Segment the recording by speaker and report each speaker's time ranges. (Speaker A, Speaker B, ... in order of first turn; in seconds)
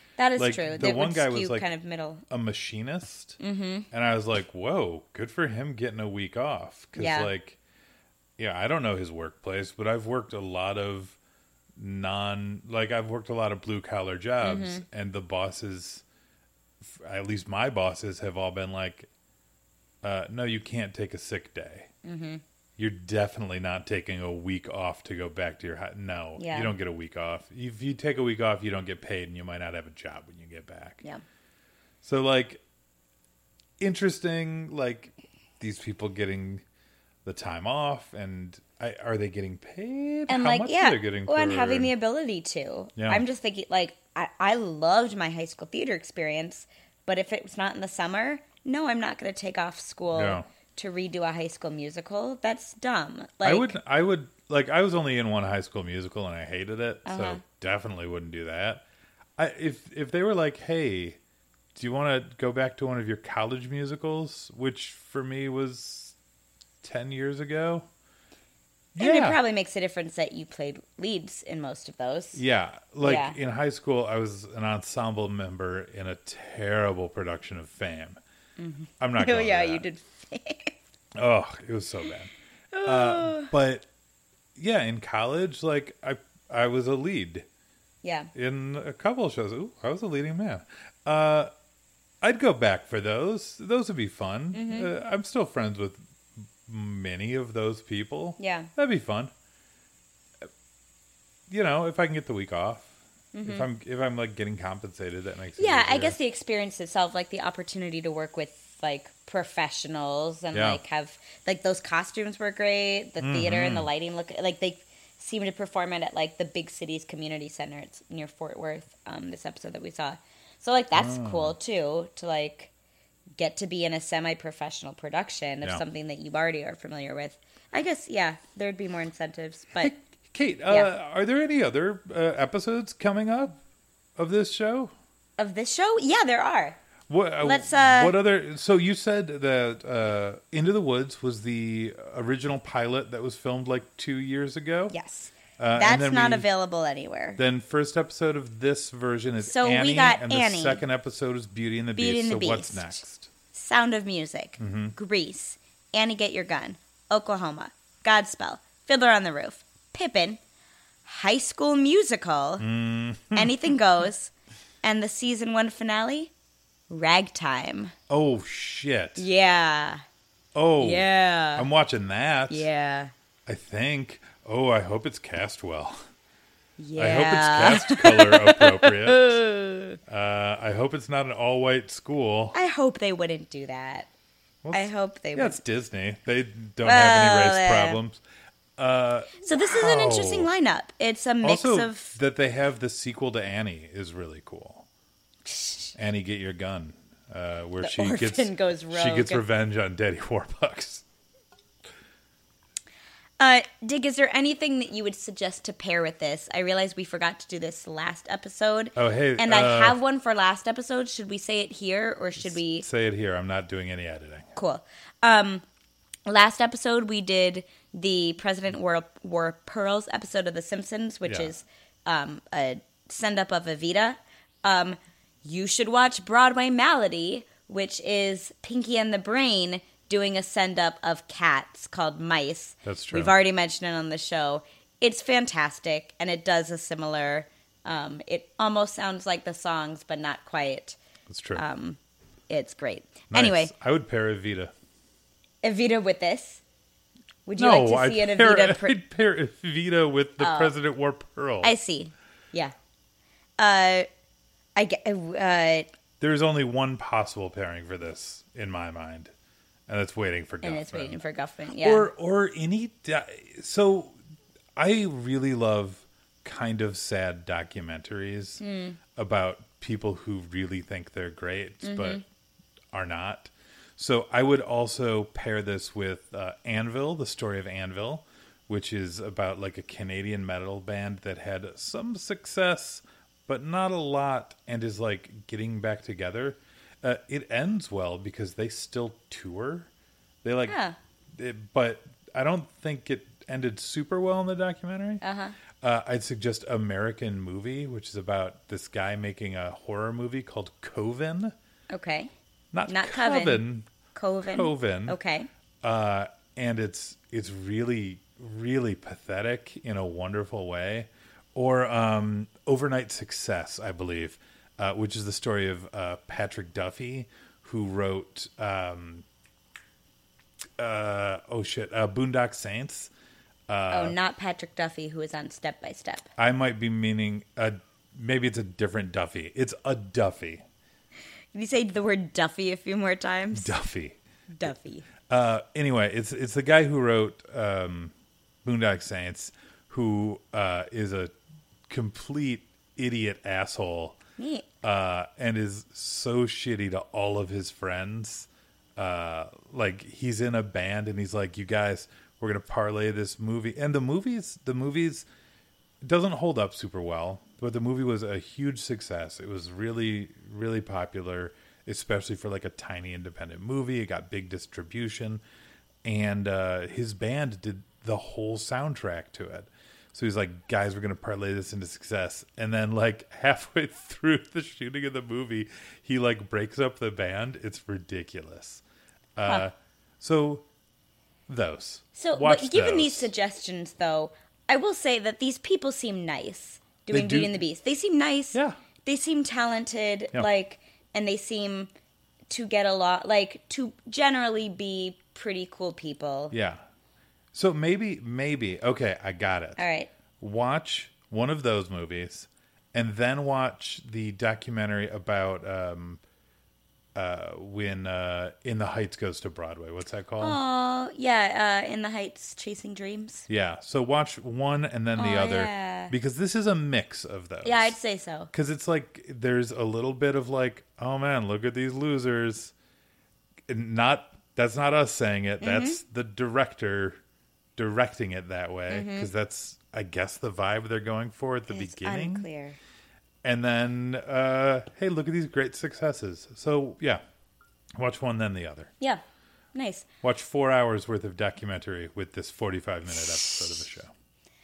Speaker A: 0.2-2.2, 3.4-3.9, 7.0-7.3, 14.4-14.8, 22.0-22.4, 26.4-26.7, 40.3-53.7, 57.0-57.4, 69.0-72.4, 73.0-73.3, 78.6-80.7, 82.7-83.5, 88.0-88.3, 94.5-94.9, 98.4-98.7, 103.3-103.7, 105.6-122.7, 123.4-129.9, 135.4-136.8, 137.4-138.1, 144.9-147.4, 149.4-150.8, 152.0-160.4, 161.0-162.7, 163.3-164.3, 164.8-166.3, 166.9-167.9, 169.2-170.0, 170.8-171.7, 172.5-173.1, 176.8-180.0, 182.5-184.1, 184.7-185.6, 186.8-188.0, 189.4-192.1, 195.4-195.9, 197.8-199.4, 203.4-212.8, 214.6-215.6, 216.2-241.0, 241.5-242.0, 242.5-243.7, 245.6-246.6, 247.4-248.9, 250.4-250.7, 251.6-252.7, 253.6-254.1, 254.8-255.9, 260.6-262.1, 268.6-269.0, 271.8-272.2, 290.7-290.9, 295.2-295.6, 301.9-302.3, 302.9-303.6, 304.1-305.5, 323.9-326.3, 331.5-333.7, 334.5-335.1, 344.4-344.7, 382.1-391.9, 392.5-396.5, 399.8-400.1, 410.4-413.5, 415.1-416.1, 417.6-418.5, 425.6-426.0, 428.9-429.3, 431.7-432.8, 439.7-440.1, 443.4-443.6
Speaker B: 0.4-1.7, 2.3-3.4, 3.9-7.6, 8.4-11.2, 11.8-16.0, 16.8-19.1, 20.0-21.9, 22.8-31.0, 32.0-32.6, 33.8-36.6, 37.2-41.9, 43.0-43.2, 50.1-50.5, 53.4-58.9, 59.4-61.2, 61.7-66.2, 66.8-67.9, 68.9-69.4, 72.3-78.2, 79.0-79.8, 81.1-82.3, 82.8-83.8, 84.5-87.5, 88.3-91.5, 92.2-96.0, 96.6-99.3, 101.5-102.9, 103.4-106.2, 110.5-110.8, 113.2-113.9, 120.9-121.5, 129.8-133.6, 134.2-134.9, 137.1-144.9, 145.6-146.5, 147.4-153.3, 154.6-154.9, 162.6-163.5, 168.1-169.2, 170.5-172.7, 173.4-176.0, 177.0-179.4, 180.1-182.5, 184.6-188.2, 188.8-190.5, 191.4-194.8, 196.0-201.0, 208.9-210.0, 212.4-214.5, 221.2-221.5, 232.8-233.3, 241.3-241.6, 243.3-244.7, 247.6-251.7, 256.2-259.3, 259.9-261.2, 261.8-264.2, 264.8-268.6, 269.1-272.2, 272.9-289.9, 290.4-290.8, 291.3-295.2, 295.8-301.5, 302.7-303.9, 304.4-305.2, 305.8-319.2, 320.8-323.1, 323.7-324.1, 326.4-330.6, 333.5-334.2, 335.2-341.3, 341.9-344.2, 344.8-355.3, 356.0-365.4, 366.0-378.8, 379.4-380.6, 381.5-383.3, 387.1-387.5, 388.5-388.8, 396.5-396.8, 397.5-399.8, 400.4-406.2, 407.1-410.6, 413.5-417.9, 418.5-422.7, 423.7-427.2, 427.8-432.5, 433.4-437.2, 438.0-438.9, 440.2-444.1